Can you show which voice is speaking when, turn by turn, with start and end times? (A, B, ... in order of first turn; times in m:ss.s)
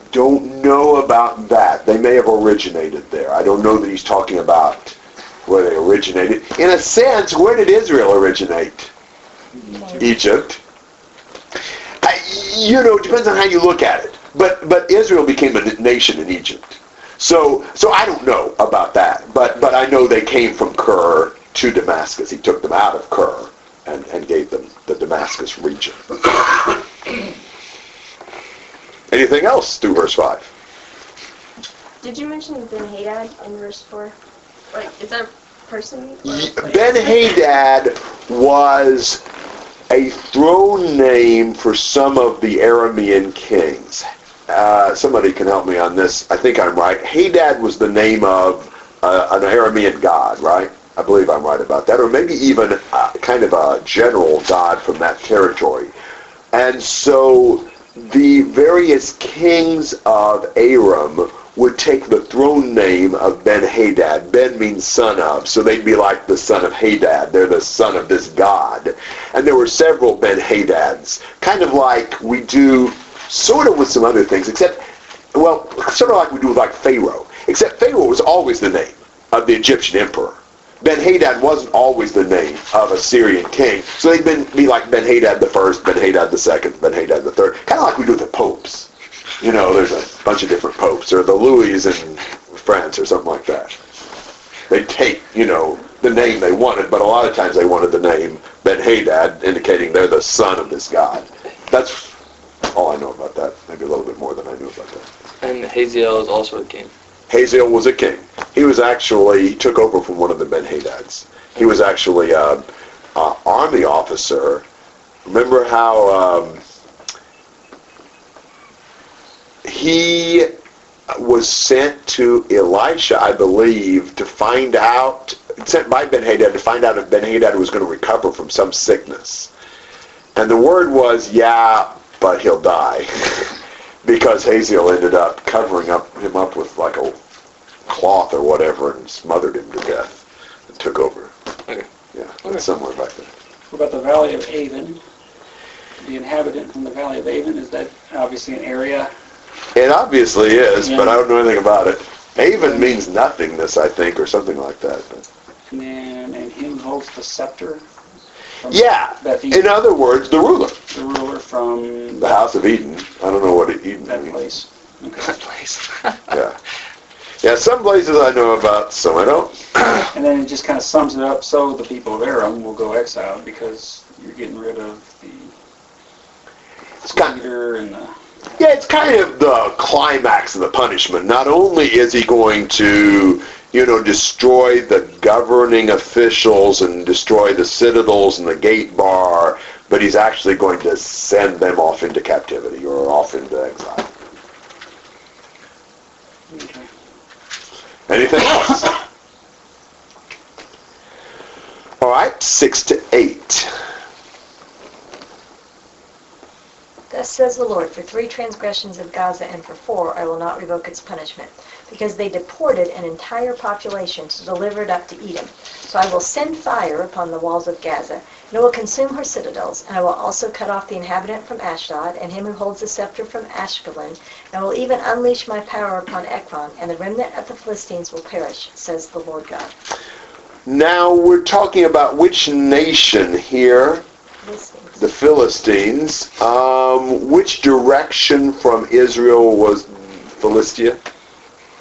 0:00.1-0:08.9 A
0:09.6-0:09.9 B
0:09.7-0:10.1 C
0:10.0-0:10.6 A
0:12.0-0:26.5 A
0:29.1-0:30.5 A
0:32.0-0:34.2 D
0:34.7-0:37.3 D
0:36.2-0:39.2 A
0:39.9-0:55.9 A
0:56.5-1:14.8 A
1:15.3-1:28.9 A
1:29.4-1:33.8 A
1:34.7-1:42.1 A
1:42.7-1:45.1 A
1:45.4-1:46.9 E
1:47.3-1:52.6 A
1:53.2-1:54.6 A
1:55.2-1:56.6 A
1:59.6-2:00.5 A
2:01.1-2:09.5 A
2:10.4-2:17.2 A
2:17.9-2:21.3 A
2:22.1-2:23.3 A
2:23.7-2:25.0 B
2:26.0-2:29.1 B
2:29.8-2:35.2 A
2:30.8-2:31.2 B
2:32.6-2:32.9 B
2:35.7-2:37.8 B
2:38.6-2:39.8 B
2:38.7-2:40.8 A
2:40.9-2:42.3 B
2:42.2-2:44.4 A
2:44.1-2:45.4 B
2:45.2-2:46.2 E
2:47.4-2:49.6 A
2:50.1-2:55.5 B
2:57.0-2:57.4 A
2:57.1-2:58.2 B
2:58.6-3:14.1 A
3:16.5-3:16.9 B
3:18.1-3:19.0 A
3:22.0-3:23.7 A
3:27.1-3:49.7 C
3:50.7-3:54.0 A
3:54.4-3:55.0 C
3:55.0-4:01.0 A